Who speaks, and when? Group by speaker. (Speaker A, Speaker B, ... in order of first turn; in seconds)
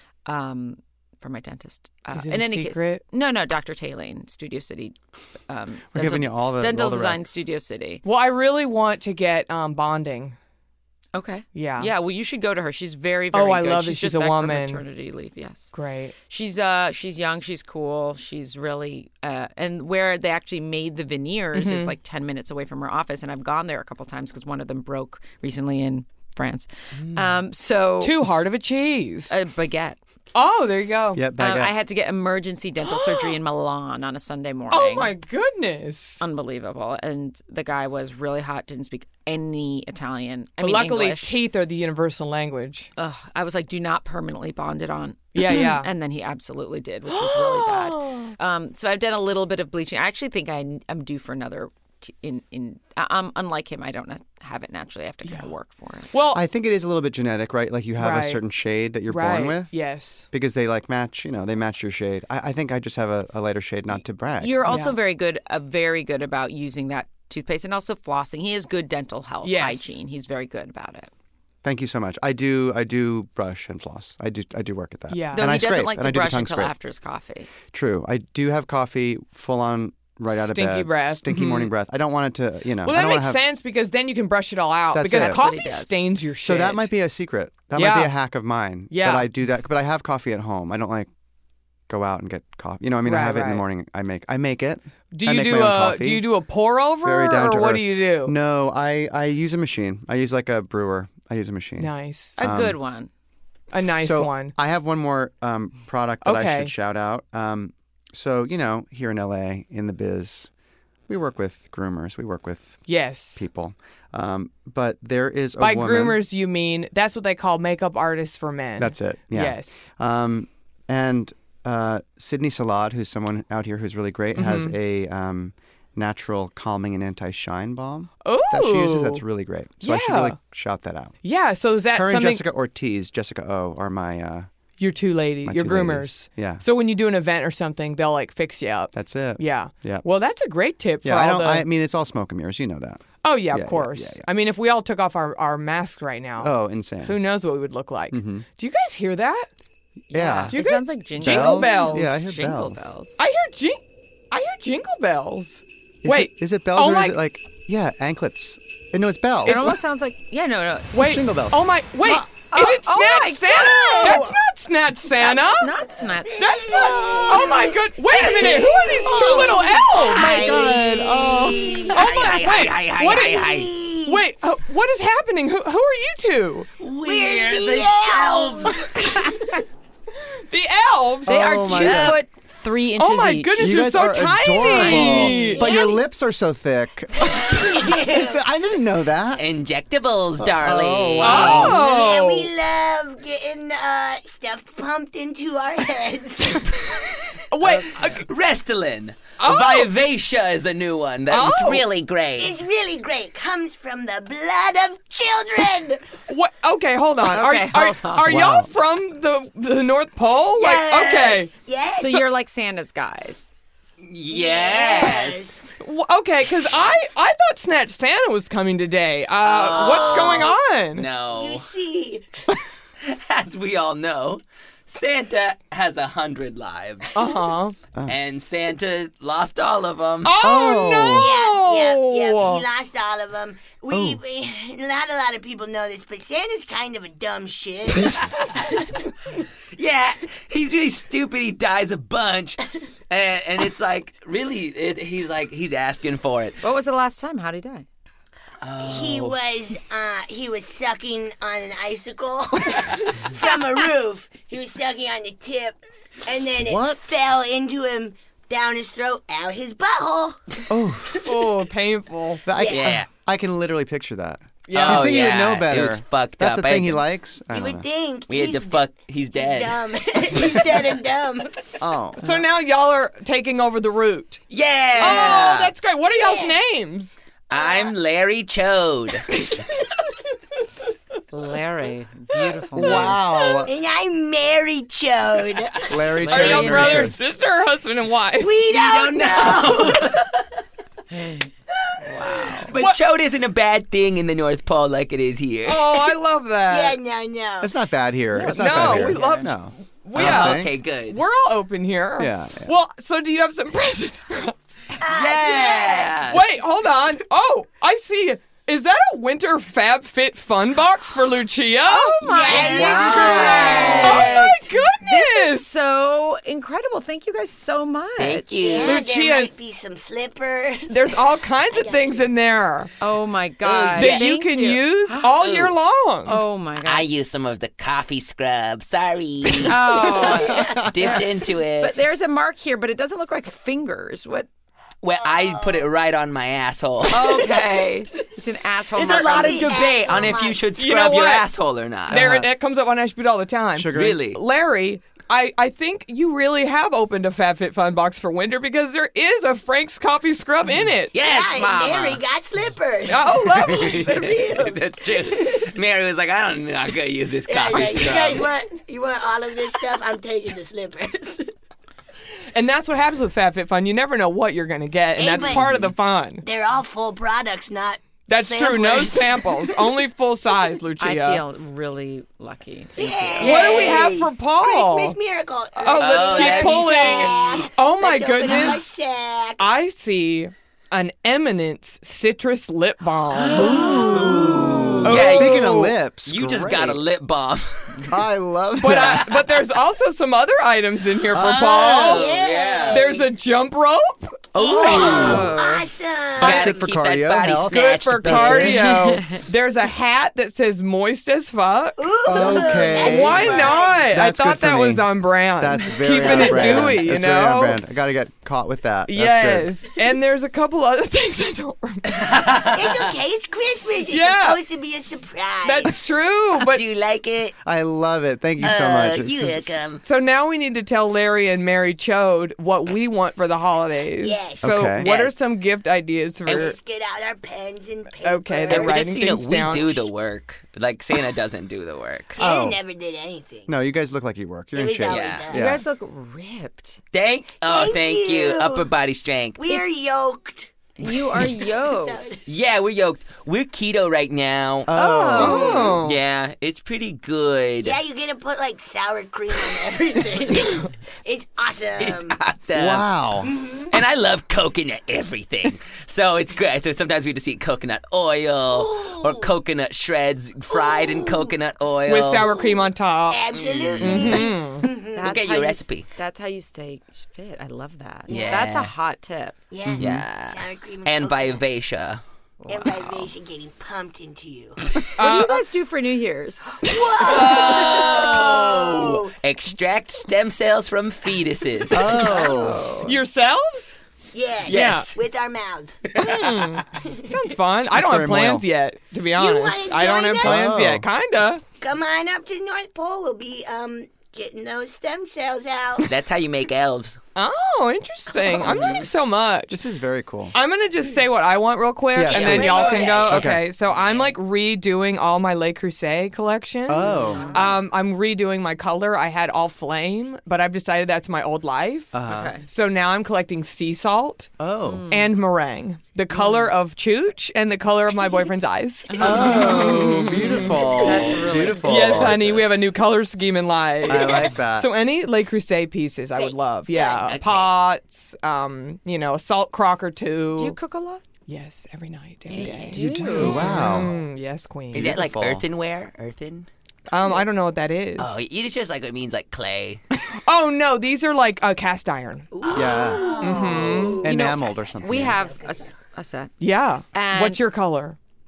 Speaker A: 0.3-5.0, 5.5-8.1, 11.1-15.7, 16.3-28.3, 29.3-30.0, 31.4-35.1, 36.2-41.4, 43.0-56.1, 64.4-71.1, 75.3-77.5, 85.1-86.0, 102.4-103.1, 150.1-153.2, 159.4-160.9, 162.5-164.3, 165.2-167.4, 181.3-183.8, 184.5-185.7, 207.2-208.4, 212.0-213.5, 246.6-247.9, 281.3-283.2, 286.2-287.1, 291.1-291.5, 311.9-314.5, 315.0-318.9, 323.0-325.4, 326.3-327.1, 329.7-334.5, 337.1-339.8, 371.0-373.9, 395.3-395.9, 398.9-399.4, 435.5-437.0, 441.0-442.3, 444.9-445.9, 465.2-469.6, 472.6-473.3, 475.2-476.8, 482.1-483.2, 512.3-512.7, 514.8-515.4, 516.3-516.7, 519.1-522.6, 530.6-531.2, 532.5-533.9, 544.2-546.5, 547.1-547.6
Speaker B: 2.1-3.0, 8.0-10.4, 11.5-11.9, 13.3-14.8, 15.7-16.1, 21.5-21.9, 26.9-27.4, 28.0-29.3, 30.4-31.2, 32.8-33.4, 34.7-36.2, 40.6-42.9, 45.4-45.9, 47.1-48.4, 55.2-55.5, 56.1-56.4, 58.0-58.4, 59.1-60.3, 64.7-65.0, 69.4-70.0, 75.1-75.5, 80.3-81.7, 82.8-86.9, 87.7-88.1, 88.9-89.3, 93.0-93.7, 95.1-98.3, 101.8-102.4, 103.7-104.5, 106.2-106.7, 112.9-113.5, 115.6-119.9, 124.3-124.8, 128.2-129.2, 129.8-130.4, 131.2-132.4, 134.8-141.7, 143.2-149.5, 150.5-152.1, 153.2-157.2, 159.5-159.8, 160.9-165.7, 166.4-176.7, 180.5-181.4, 183.0-185.6, 191.2-192.5, 197.5-198.3, 199.4-199.9, 201.3-201.8, 206.3-211.5, 215.8-221.1, 227.2-227.8, 230.2-232.7, 261.2-262.4, 264.7-265.4, 272.2-274.4, 275.0-277.1, 286.3-288.6, 292.2-293.0, 295.7-297.0, 298.4-304.9, 306.3-315.7, 318.8-319.5, 320.9-322.9, 323.9-326.4, 340.8-341.5, 342.1-351.2, 353.1-354.2, 362.5-366.4, 368.3-371.4, 373.4-375.2, 375.8-379.0, 379.6-385.9, 388.8-392.3, 392.9-395.3, 397.7-407.8, 409.1-412.2, 414.1-414.6, 415.6-416.8, 420.0-426.8, 428.2-430.1, 445.4-446.2, 462.1-463.4, 464.0-464.9, 475.2-475.6, 483.0-484.0, 484.7-485.1, 486.2-491.6, 497.4-499.8, 500.5-512.1, 512.7-514.5, 515.1-521.3, 521.8-530.8, 531.5-535.1, 537.1-538.4, 540.4-542.5, 543.4-544.3, 546.6-548.2
Speaker C: 5.9-7.3, 31.1-31.7, 56.3-59.7, 60.3-64.7, 71.6-76.7, 77.7-83.4, 84.9-85.5, 86.4-91.1, 91.9-96.3, 97.0-102.8, 104.0-110.5, 111.1-116.2, 118.8-131.2, 131.9-134.5, 135.4-136.6, 138.9-140.1, 141.0-144.2, 146.4-147.2, 148.1-148.4, 150.1-150.6, 151.2-152.9, 156.0-159.8, 161.0-162.3, 164.0-164.3, 170.2-171.5, 181.3-182.2, 183.6-189.4, 190.4-191.8, 208.2-208.7, 230.4-231.3, 233.9-234.2, 256.6-257.1, 260.7-261.2, 262.5-267.9, 271.8-272.2, 282.8-283.7, 285.9-287.2, 297.6-300.7, 302.2-302.7, 342.1-342.5, 343.8-344.2, 383.7-384.5, 385.0-387.0, 388.1-389.3, 391.4-391.6, 394.8-395.5, 396.4-398.9, 402.3-409.7, 417.6-419.8, 424.6-425.1, 432.4-432.8, 433.7-435.8, 444.9-445.6, 452.8-453.5, 469.9-470.2, 481.9-482.9, 487.9-488.6, 490.4-491.1, 499.7-500.6, 502.1-503.6, 506.9-507.5, 512.1-512.6, 514.6-515.0, 519.2-522.6, 524.0-524.9, 532.9-534.1, 534.9-535.6, 542.7-543.4, 544.2-545.4
Speaker D: 166.2-172.2, 173.1-174.2, 177.0-179.4, 185.5-186.0, 187.2-188.4, 191.5-196.9, 202.4-206.1, 210.6-212.3, 214.3-215.6, 221.3-222.3, 231.1-238.3, 248.8-260.4, 262.5-263.0, 267.5-271.6, 275.0-275.4, 276.0-276.6, 277.5-277.9, 283.5-286.0, 288.4-290.3, 292.1-292.7, 296.7-297.8, 305.0-306.3, 312.2-314.5, 318.5-322.3, 330.1-330.9, 335.1-335.9, 339.0-340.7, 351.2-355.7, 357.4-361.5, 365.2-365.7, 366.4-369.8, 373.0-379.7, 383.5-385.1, 391.7-393.3, 394.6-396.9, 402.0-404.1, 406.2-406.9, 412.7-416.0, 424.2-424.9, 426.5-429.1, 432.3-433.7, 434.7-435.8, 437.6-438.9, 439.6-442.5, 445.5-446.0, 447.8-452.4, 453.4-454.0, 458.7-459.5, 460.7-461.6, 462.4-465.4, 468.3-468.6, 469.7-471.6, 472.7-474.8, 476.8-479.4, 484.3-487.4, 489.4-490.8, 491.8-496.2, 502.3-503.4, 507.1-507.8, 526.4-527.1, 542.6-545.9
Speaker E: 170.2-173.7, 176.8-179.1, 181.7-182.2, 189.4-191.8, 197.7-202.6, 214.0-215.6, 219.4-221.7, 223.0-227.3, 228.1-230.4, 238.0-238.6, 239.7-246.6, 248.6-249.4, 262.6-263.1, 264.7-267.0, 268.3-270.7, 274.5-275.7, 277.5-279.4, 288.7-290.3, 292.2-295.9, 300.1-301.2, 305.1-306.4, 312.5-314.6, 318.2-319.0, 323.7-324.2, 325.4-325.8, 326.8-331.9, 335.0-337.5, 338.9-342.2, 343.9-344.4, 351.1-352.2, 353.6-358.5, 365.3-365.9, 376.0-377.6, 383.7-388.1, 388.9-389.2, 391.4-393.1, 394.6-395.5, 396.4-398.8, 412.1-413.1, 416.6-417.6, 418.6-420.0, 428.7-432.4, 435.1-435.5, 437.1-439.8, 442.5-444.9, 445.8-448.0, 452.0-453.1, 453.9-462.5, 463.5-464.5, 465.3-466.1, 468.3-468.9, 469.9-472.2, 477.2-482.2, 484.7-485.1, 486.1-486.4, 496.0-497.2, 498.6-499.1, 502.3-504.3, 526.9-527.7, 532.5-533.0, 534.9-536.7, 538.2-540.0, 542.6-544.1